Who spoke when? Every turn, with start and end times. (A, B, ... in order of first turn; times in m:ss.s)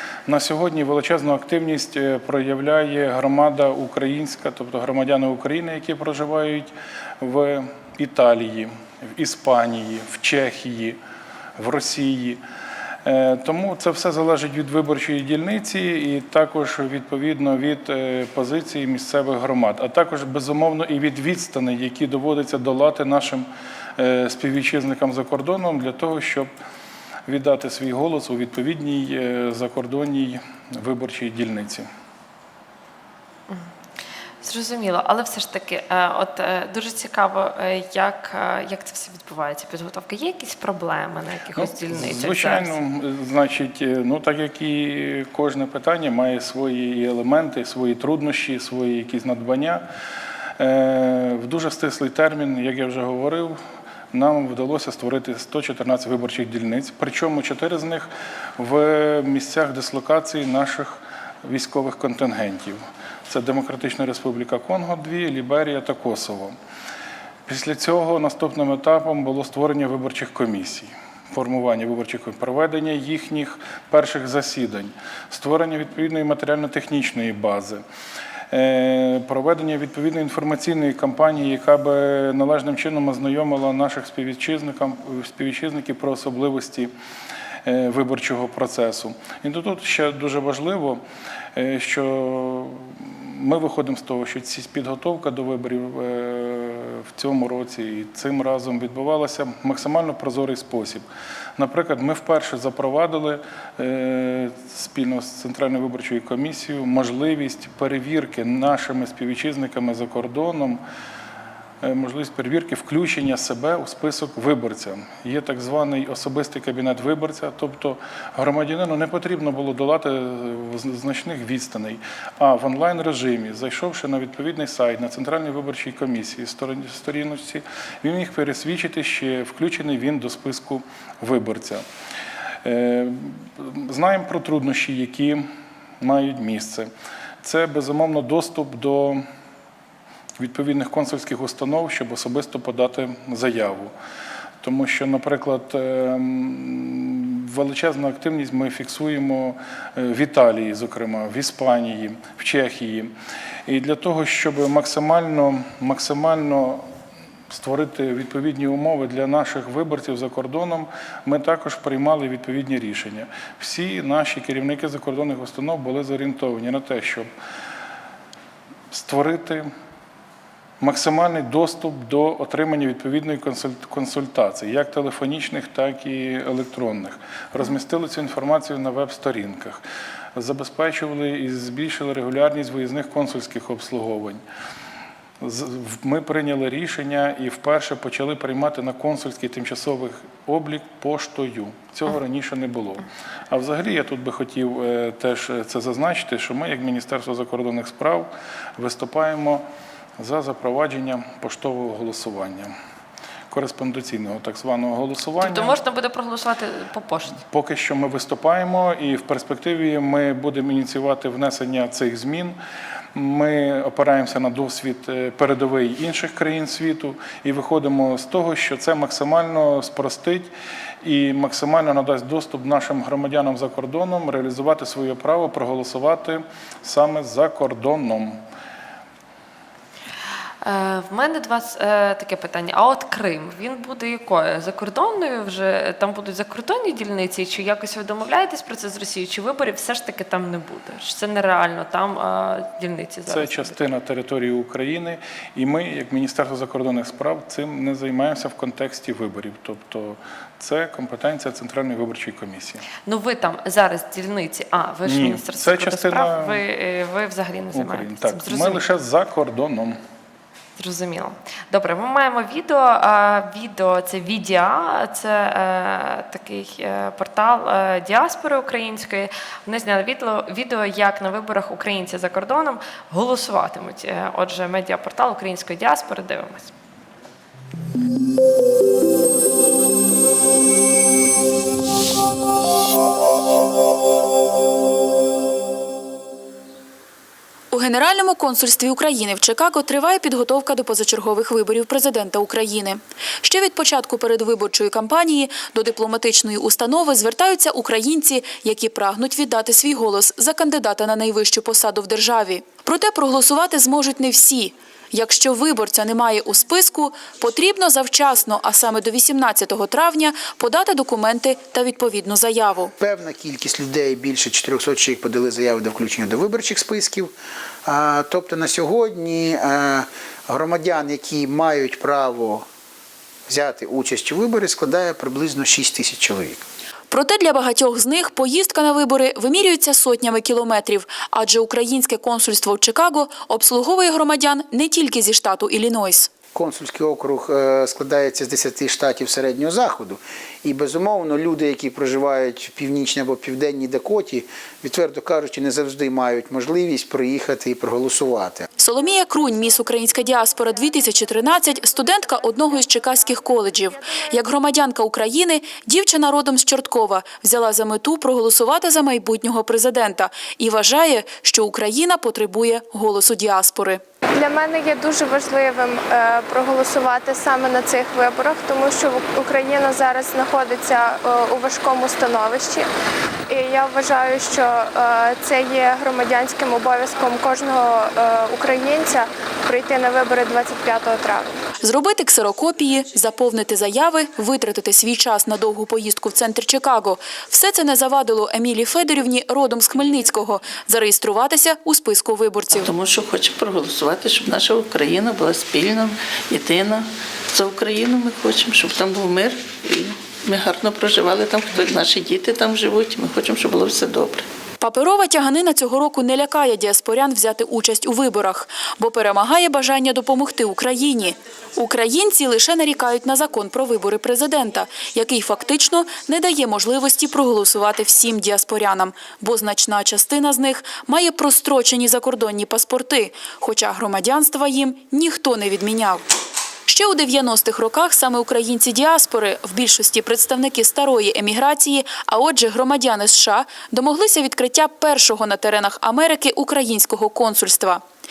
0:00.3-0:11.0 A
0:11.6-0:12.4 A
0:13.0-0:23.5 A
0:24.0-0:26.5 A
0:27.3-0:31.9 A
0:34.4-0:42.8 B
0:41.6-0:49.8 A
0:50.6-0:53.6 A
0:54.1-1:06.6 A
1:07.5-1:17.8 A
1:18.5-1:26.9 A
1:27.6-1:31.0 A
1:31.6-1:50.8 A
1:51.8-2:11.8 A
2:12.6-2:15.4 A
2:16.0-2:16.9 A
2:17.4-2:19.2 A
2:20.4-2:23.9 A
2:24.6-2:33.1 A
2:33.7-2:36.8 A
2:37.5-2:47.3 A
2:48.9-2:49.7 A
2:50.8-2:59.8 A
3:00.4-3:04.4 A
3:05.4-3:19.6 A
3:20.2-3:22.7 A
3:23.5-3:25.8 A
3:25.4-3:27.4 B
3:27.5-3:32.6 A
3:33.2-3:40.5 A
3:41.0-3:48.4 A
3:50.6-4:03.8 B
4:03.3-4:12.8 A
4:13.1-4:18.8 B
4:15.0-4:16.6 A
4:17.7-4:20.0 A
4:20.8-4:36.7 B
4:47.7-5:12.9 C
5:13.0-5:17.3 D
5:17.8-5:22.7 D
5:23.5-5:26.6 D
5:27.1-5:36.4 C
5:36.5-5:48.7 D
5:48.8-6:04.0 C
6:04.3-6:12.9 E
6:13.5-6:21.5 E
6:21.8-6:32.9 C
6:32.7-6:44.5 F
6:44.8-7:06.2 C
7:06.9-7:18.0 C